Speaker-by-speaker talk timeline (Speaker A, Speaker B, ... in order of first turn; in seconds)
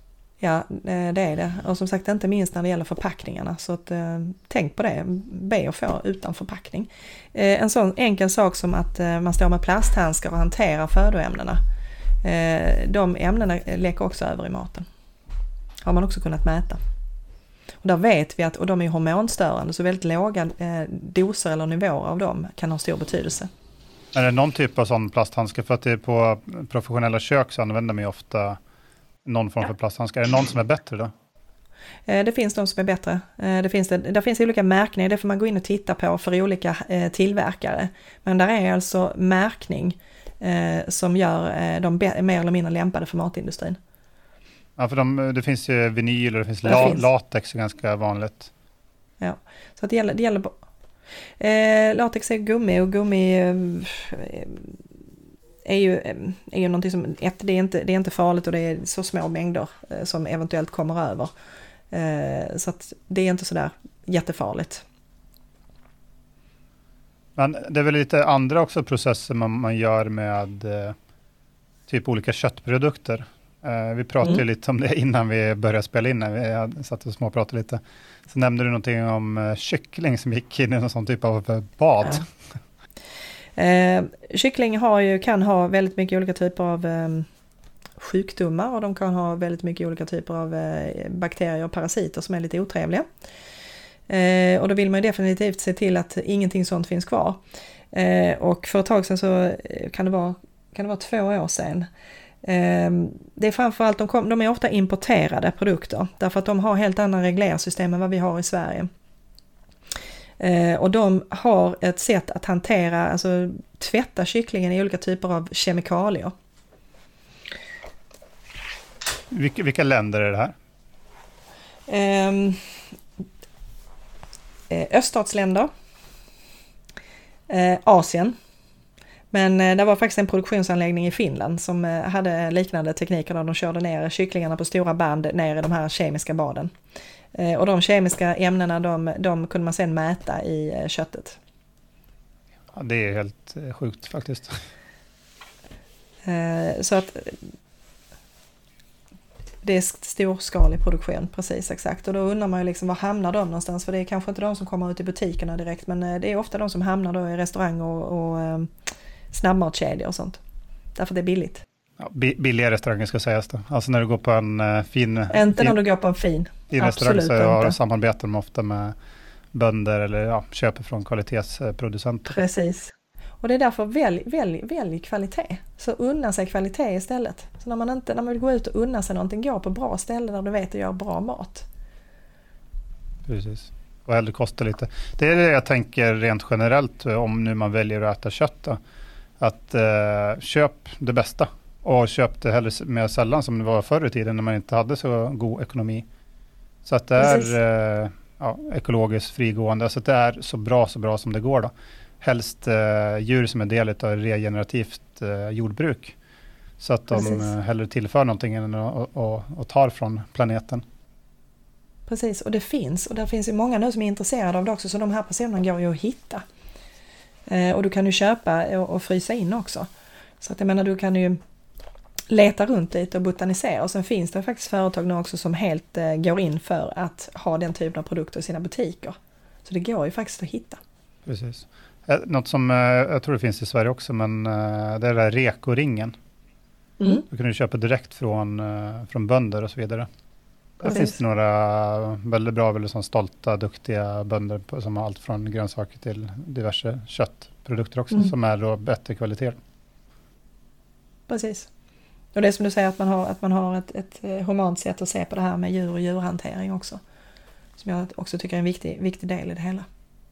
Speaker A: 0.4-11.6, 12.2-14.8, 15.8-16.8, 17.8-23.5, 32.1-43.8, 46.6-47.0, 49.2-50.6, 51.4-54.8, 55.6-61.3, 61.9-64.8, 83.5-87.3, 88.0-93.0, 94.1-97.4, 97.9-101.9, 102.4-108.9, 110.4-116.3, 121.9-122.6, 124.7-125.7, 127.5-128.3, 129.3-136.7, 137.3-141.4, 146.2-147.4, 149.6-158.7, 159.3-160.4, 160.9-161.6, 165.3-167.8, 172.3-181.7, 197.2-197.5, 207.1-207.5, 212.1-216.4, 217.5-219.9, 220.4-221.4, 222.3-230.8, 251.3-251.7, 252.3-257.0, 257.8-259.9
Speaker B: 24.1-28.6, 29.2-31.1, 44.8-48.5, 67.3-71.0, 71.9-82.3, 119.3-120.5, 142.7-144.6, 162.0-165.8, 166.7-168.9, 169.5-172.4, 183.2-188.8, 189.4-196.1, 196.8-206.1, 206.8-210.8, 231.2-236.1, 237.1-240.1, 240.8-249.6